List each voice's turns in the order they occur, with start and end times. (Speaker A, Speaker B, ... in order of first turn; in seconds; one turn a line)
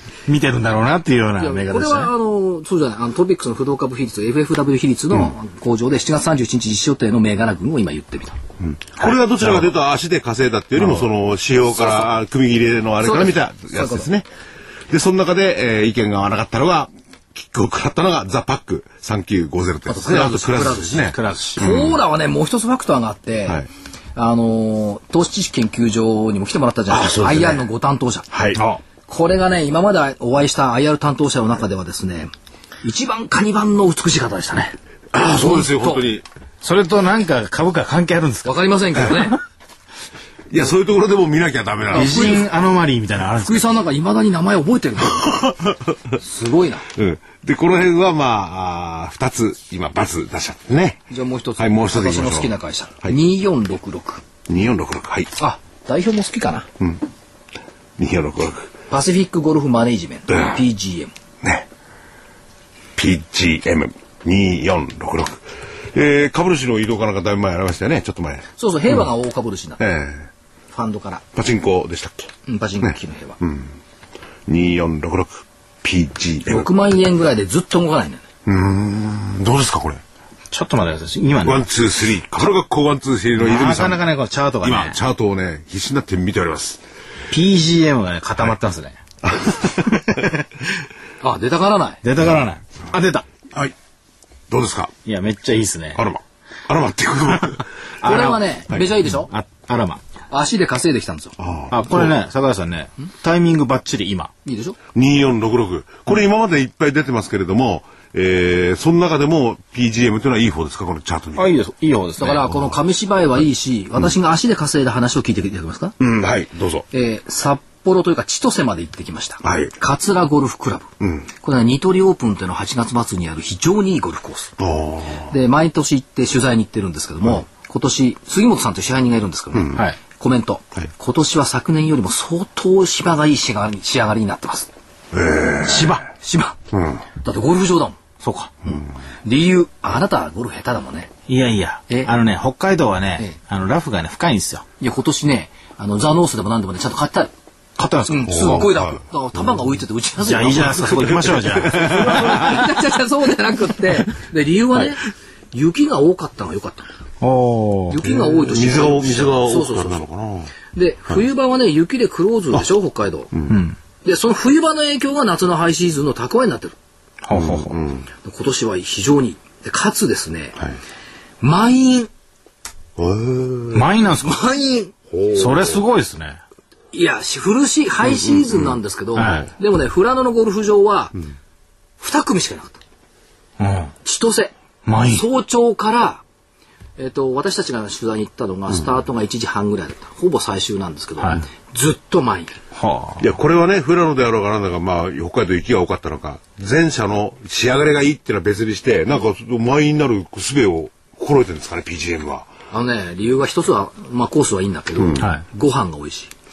Speaker A: 0.3-2.1
Speaker B: 1.4-8.4
Speaker C: 8.6-14.2
Speaker A: 9.0-9.7
Speaker A: 10.8-11.0
Speaker B: 13.0-14.1
Speaker C: 14.9-22.0
Speaker B: 19.9-23.6
Speaker A: 21.1-21.6
Speaker B: 24.1-28.2
Speaker C: 26.9-27.7
Speaker C: 28.3-28.6
Speaker A: 28.6-28.8
Speaker B: 29.1-32.3
Speaker B: 32.8-34.8
Speaker C: 35.1-36.2
Speaker B: 35.3-36.1
Speaker A: 36.6-39.1
Speaker B: 38.4-39.4
Speaker C: 40.5-42.3
Speaker B: 41.9-42.5
Speaker A: 41.9-43.7
Speaker B: 43.4-45.3
Speaker B: 46.2-46.9
Speaker C: 47.0-52.5
Speaker B: 51.1-54.2
Speaker C: 54.5-55.3
Speaker B: 55.4-56.7
Speaker C: 58.0-58.7
Speaker B: 58.9-61.1
Speaker C: 60.3-60.6
Speaker C: 63.0-68.5
Speaker B: 68.6-69.8
Speaker C: 69.8-70.3
Speaker B: 70.7-71.2
Speaker C: 71.3-73.7
Speaker B: 72.5-73.4
Speaker C: 74.5-76.7
Speaker B: 76.5-78.2
Speaker C: 78.5-80.0
Speaker A: 80.5-81.6
Speaker C: 81.4-84.0
Speaker A: 83.4-85.0
Speaker C: 84.6-86.8
Speaker A: 87.3-89.0
Speaker C: 89.2-89.9
Speaker A: 89.8-90.4
Speaker B: 91.2-92.0
Speaker A: 92.0-93.3
Speaker C: 94.5-94.9
Speaker A: 95.0-96.0
Speaker C: 96.0-97.7
Speaker A: 98.0-98.5
Speaker B: 98.0-99.3
Speaker A: 99.0-100.0
Speaker B: 100.3-101.3
Speaker C: 101.4-102.1
Speaker A: 101.7-104.3
Speaker B: 104.4-104.8
Speaker C: 104.9-111.5
Speaker A: 111.3-112.5
Speaker B: 112.2-115.9
Speaker C: 116.0-116.8
Speaker B: 116.9-120.9
Speaker C: 119.4-119.7
Speaker C: 121.0-121.3
Speaker B: 121.4-124.5
Speaker C: 124.6-125.3
Speaker B: 125.3-134.7
Speaker C: 129.5-129.8
Speaker C: 135.1-135.9
Speaker A: 135.6-136.0
Speaker B: 136.0-136.6
Speaker C: 136.7-137.0
Speaker B: 137.2-138.0
Speaker A: 138.2-138.5
Speaker B: 139.2-141.1
Speaker A: 141.3-144.7
Speaker B: 144.8-147.3
Speaker A: 147.8-148.7
Speaker B: 148.1-156.9
Speaker C: 148.3-149.0
Speaker A: 150.2-152.6
Speaker A: 157.2-158.0
Speaker B: 157.9-160.1
Speaker C: 158.0-160.5
Speaker B: 160.7-163.3
Speaker A: 163.5-163.8
Speaker B: 164.0-166.8
Speaker A: 167.2-167.8
Speaker C: 167.3-168.1
Speaker B: 168.2-170.6
Speaker B: 171.4-172.1
Speaker C: 173.0-173.8
Speaker A: 173.7-174.4
Speaker B: 174.2-174.9
Speaker C: 175.1-175.8
Speaker A: 175.3-176.4
Speaker B: 176.9-181.2
Speaker C: 178.1-179.4
Speaker A: 179.2-179.5
Speaker B: 182.0-182.8
Speaker A: 183.6-183.9
Speaker B: 184.0-184.5
Speaker A: 184.8-185.2
Speaker B: 185.0-186.2
Speaker B: 187.0-192.6
Speaker A: 191.2-191.4
Speaker A: 192.7-193.2
Speaker C: 193.2-202.5
Speaker B: 202.7-206.3
Speaker C: 205.0-205.2
Speaker A: 205.2-205.4